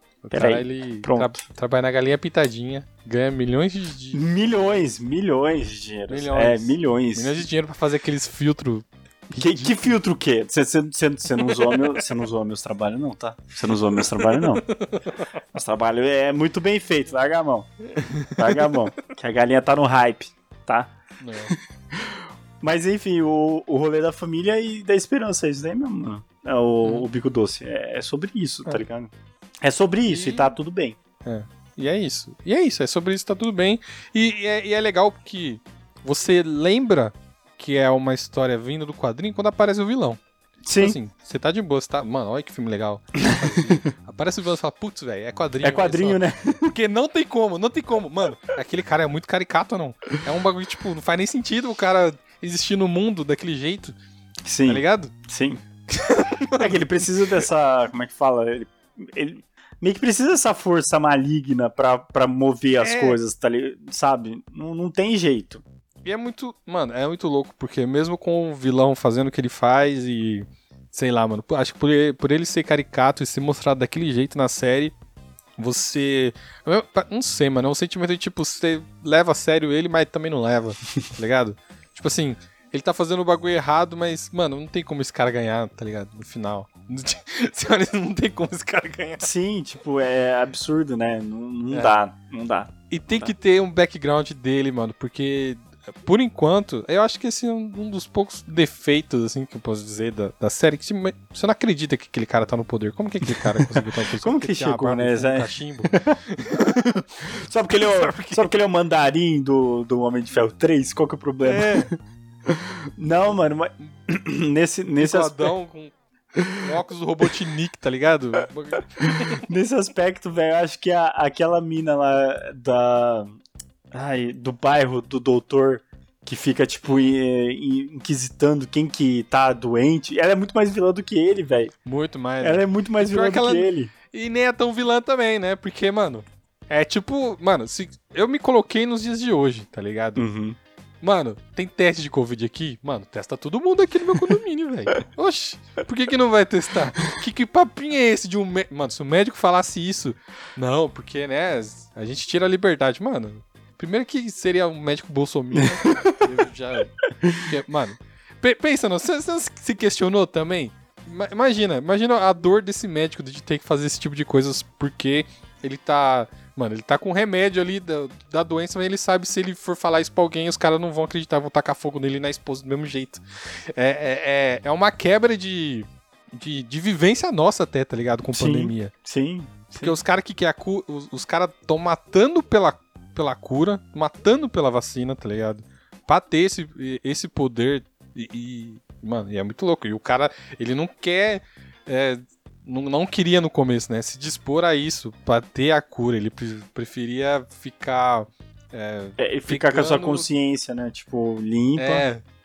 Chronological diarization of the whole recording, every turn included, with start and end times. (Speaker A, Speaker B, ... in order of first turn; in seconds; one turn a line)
Speaker A: 0.2-4.2
Speaker B: 0.3-1.4
Speaker B: 4.1-7.4
Speaker A: 6.1-10.0
Speaker B: 9.3-14.6
Speaker A: 11.4-12.0
Speaker A: 14.2-15.2
Speaker B: 15.5-17.7
Speaker A: 17.9-18.7
Speaker B: 18.3-20.9
Speaker A: 21.2-21.6
Speaker B: 21.5-31.0
Speaker A: 30.1-30.6
Speaker A: 31.2-40.2
Speaker B: 40.7-41.0
Speaker A: 40.7-54.0
Speaker B: 43.2-43.8
Speaker B: 45.6-46.7
Speaker B: 54.5-55.6
Speaker A: 54.7-55.1
Speaker A: 55.9-56.8
Speaker B: 56.6-65.6
Speaker A: 62.8-63.2
Speaker A: 66.0-75.0
Speaker A: 75.6-89.3
Speaker B: 89.2-93.3
Speaker A: 91.7-92.0
Speaker A: 92.9-108.5
Speaker B: 103.4-106.2
Speaker B: 107.3-111.9
Speaker A: 111.5-111.9
Speaker B: 112.5-115.5
Speaker A: 115.0-115.9
Speaker B: 116.3-116.6
Speaker A: 116.6-119.5
Speaker B: 119.0-123.3
Speaker B: 123.9-131.7
Speaker A: 126.9-127.1
Speaker A: 131.8-140.2
Speaker B: 132.4-133.9
Speaker B: 140.2-140.6
Speaker A: 141.0-173.2
Speaker B: 155.6-156.2
Speaker B: 157.2-157.5
Speaker A: 173.7-178.9
Speaker B: 178.3-180.0
Speaker A: 179.8-200.3
Speaker B: 199.2-202.1
Speaker A: 201.8-202.2